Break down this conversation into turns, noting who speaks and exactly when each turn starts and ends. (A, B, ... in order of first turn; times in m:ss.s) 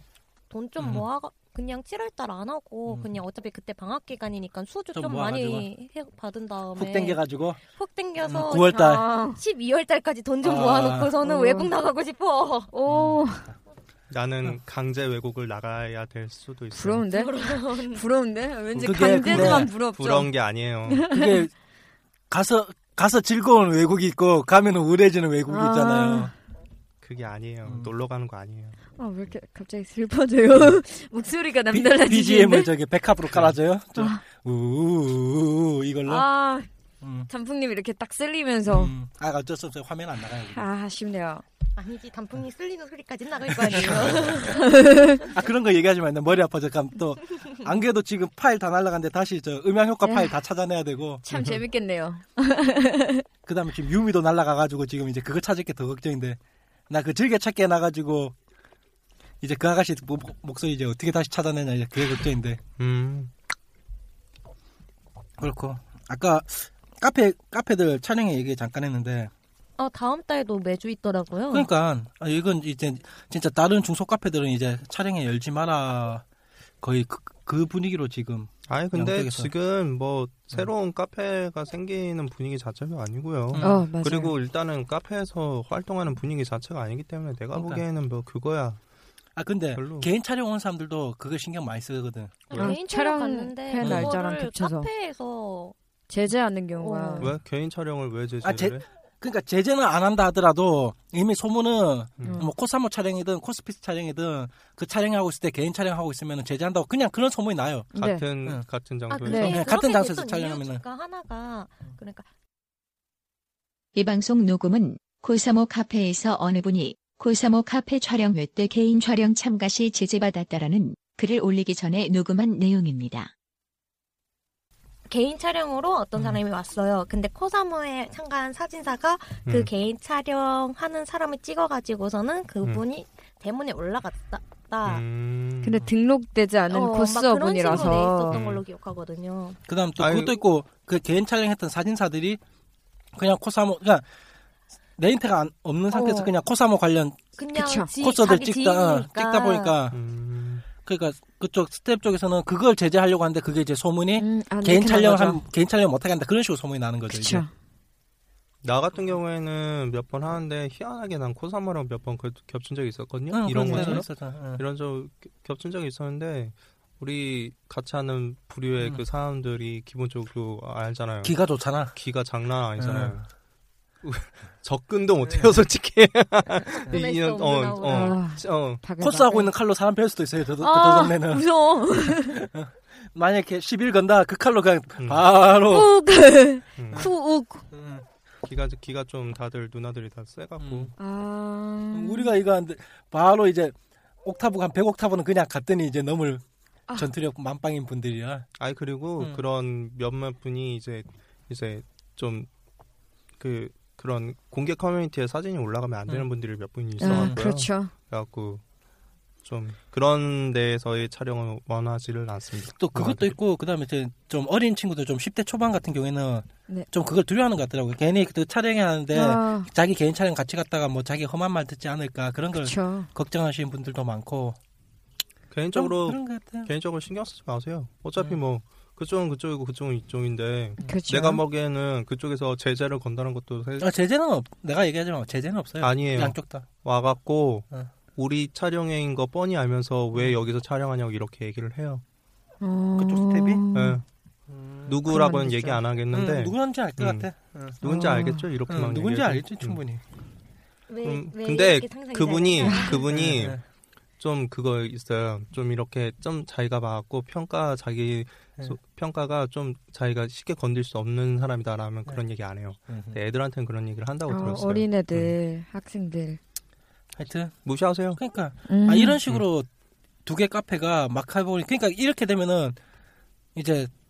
0:00.5-0:12.7 A
0:00.8-0:01.0 B
0:02.9-0:03.2 B
0:04.9-0:05.7 B
0:06.7-0:07.6 B
0:08.2-0:09.1 B
0:08.7-0:09.4 C
0:10.4-0:11.1 B
0:11.2-0:11.7 C
0:12.7-0:13.5 C
0:12.9-0:13.2 B
0:14.1-0:17.0 D
0:16.7-0:20.3 C
0:17.1-0:18.0 A
0:18.8-0:19.7 B
0:19.2-0:21.1 D
0:20.9-0:21.4 C
0:21.1-0:21.5 B
0:22.3-0:26.3 B
0:25.5-0:26.3 C
0:27.0-0:28.8 D
0:27.6-0:27.9 B
0:29.0-0:32.7 C
0:31.7-0:36.3 B
0:34.0-0:34.2 C
0:36.0-0:36.7 C
0:37.0-0:37.3 B
0:37.3-0:38.9 C
0:38.7-0:40.7 B
0:40.5-0:41.4 C
0:41.7-0:44.6 A
0:43.5-0:44.5 B
0:44.4-0:45.2 C
0:45.3-0:51.2 B
0:50.0-0:50.3 C
0:51.2-0:53.2 C
0:53.4-0:56.4 B
0:56.9-0:58.3 B
0:59.4-1:02.6 B
1:02.8-1:03.3 D
1:05.4-1:09.3 B
1:09.8-1:11.7 A
1:11.5-1:16.2 B
1:16.8-1:19.5 B
1:18.7-1:28.8 D
1:23.5-1:23.8 B
1:23.6-1:24.3 C
1:27.5-1:27.8 B
1:29.4-1:32.5 B
1:29.7-1:30.1 D
1:32.5-1:35.7 A
1:32.5-1:34.9 C
1:33.8-1:34.1 B
1:36.1-1:37.3 C
1:36.8-1:37.3 A
1:37.2-1:38.8 D
1:38.4-1:47.9 B
1:42.2-1:42.5 D
1:42.2-1:42.5 C
1:47.9-1:48.2 C
1:47.9-1:49.6 D
1:49.1-1:52.3 A
1:49.2-1:49.6 C
1:49.3-1:50.8 B
1:53.9-2:03.3 E
2:05.1-2:15.0 A
2:14.8-2:15.8 D
2:15.6-2:18.4 C
2:16.7-2:19.6 A
2:18.3-2:18.6 D
2:19.7-2:22.4 B
2:20.0-2:20.4 D
2:23.1-2:24.0 B
2:25.0-2:27.3 B
2:25.9-2:26.3 A
2:27.4-2:29.7 A
2:27.5-2:27.9 C
2:28.0-2:30.0 B
2:29.9-2:30.6 D
2:30.8-2:37.4 B
2:34.2-2:35.4 C
2:37.1-2:37.5 C
2:38.6-2:53.2 D
2:43.3-2:44.6 B
2:43.5-2:44.0 C
2:51.2-2:51.9 B
2:52.8-2:53.2 B
2:54.0-2:58.8 D
2:56.9-2:58.2 A
2:57.8-2:59.5 C
2:59.0-3:01.5 B
3:00.6-3:02.4 C
3:02.1-3:05.9 B
3:05.0-3:05.2 D
3:05.7-3:07.6 C
3:06.8-3:07.1 D
3:07.7-3:08.0 B
3:08.4-3:10.9 D
3:10.6-3:10.9 B
3:11.0-3:12.3 C
3:11.9-3:16.4 B
3:16.9-3:18.5 B
3:18.6-3:22.5 D
3:23.4-3:28.6 D
3:27.0-3:27.9 C
3:27.0-3:27.4 B
3:29.4-3:33.4 D
3:32.7-3:44.6 B
3:39.1-3:39.7 C
3:42.6-3:43.1 C
3:45.5-3:53.9 D
3:45.7-3:46.7 B
3:50.8-3:51.4 C
3:53.8-3:56.6 B
3:55.8-4:02.0 D
4:02.6-4:04.0 C
4:03.0-4:03.6 B
4:03.7-4:04.0 D
4:04.5-4:05.0 B
4:04.8-4:07.3 D
4:05.0-4:05.8 C
4:06.1-4:07.8 B
4:07.8-4:09.8 D
4:07.8-4:08.4 C
4:08.7-4:10.0 B
4:10.9-4:13.0 A
4:11.0-4:13.6 D
4:12.6-4:12.9 C
4:13.1-4:13.6 B
4:14.2-4:25.3 D
4:22.9-4:23.2 B
4:24.3-4:26.4 C
4:27.2-4:27.6 B
4:27.6-4:28.2 D
4:28.2-4:29.7 B
4:28.7-4:29.2 C
4:30.2-4:32.8 B
4:33.5-4:33.9 B